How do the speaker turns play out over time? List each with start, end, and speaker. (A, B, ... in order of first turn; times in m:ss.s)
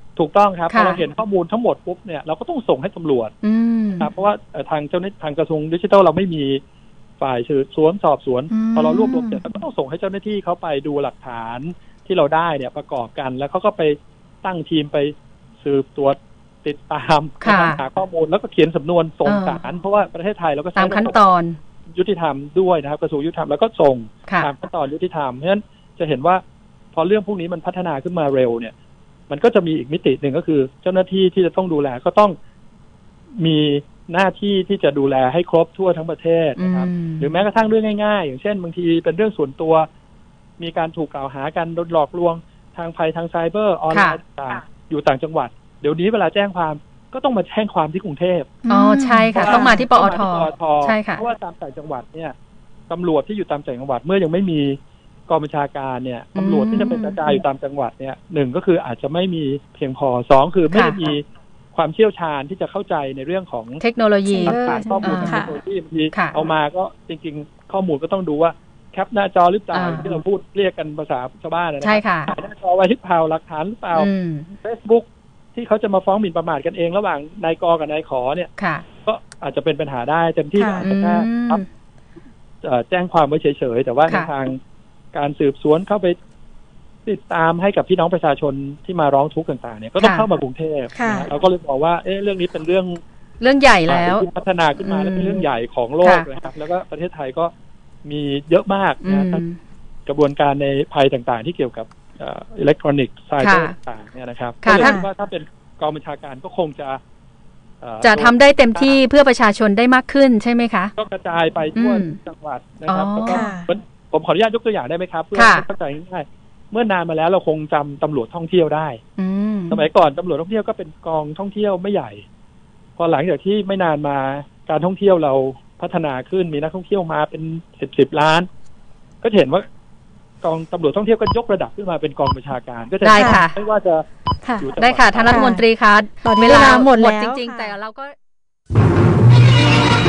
0:00.2-0:03.3 A
0:00.7-0:01.0 B
0:03.4-0:04.1 B
0:04.0-0:06.6 A
0:07.2-0:21.2 A
0:08.5-0:09.4 C
0:17.4-0:17.8 B
0:19.3-0:19.6 B
0:20.8-0:21.6 B
0:21.9-0:26.4 A
0:26.9-0:28.7 A
0:29.3-0:32.4 A
0:33.4-0:39.9 A
0:36.6-0:37.4 B
0:40.6-0:48.6 A
0:43.9-0:44.2 B
0:48.6-0:49.9 C
0:48.7-0:51.2 B
0:49.4-0:52.3 A
0:52.9-1:03.8 A
0:56.4-0:57.4 B
1:00.7-1:01.0 B
1:03.8-1:05.4 B
1:04.3-1:05.6 C
1:04.4-1:14.1 A
1:06.1-1:06.4 B
1:09.7-1:10.2 B
1:11.8-1:12.3 B
1:14.0-1:14.6 B
1:14.6-1:18.5 A
1:18.6-1:18.8 B
1:19.0-1:21.6 A
1:20.6-1:20.9 C
1:20.8-1:21.7 B
1:22.6-1:24.6 A
1:25.1-1:26.2 A
1:27.1-1:33.0 A
1:30.0-1:30.3 B
1:30.9-1:31.3 C
1:33.4-1:34.3 B
1:33.9-1:37.5 A
1:34.8-1:35.4 B
1:38.0-1:39.4 A
1:39.0-1:39.6 B
1:40.1-1:47.0 A
1:43.4-1:43.7 B
1:44.6-1:45.0 B
1:44.7-1:45.1 C
1:47.8-1:49.0 A
1:48.0-1:50.9 B
1:51.0-1:59.0 A
1:51.8-1:52.2 B
1:52.9-1:53.5 B
1:53.3-1:53.7 C
1:55.4-1:55.6 B
1:59.2-1:59.8 B
1:59.7-2:02.2 A
2:03.0-2:08.5 A
2:09.2-2:09.6 A
2:10.4-2:14.0 A
2:13.0-2:13.6 B
2:13.2-2:13.4 C
2:14.4-2:14.7 C
2:14.6-2:15.5 A
2:14.8-2:18.1 B
2:15.3-2:15.6 C
2:16.2-2:17.8 C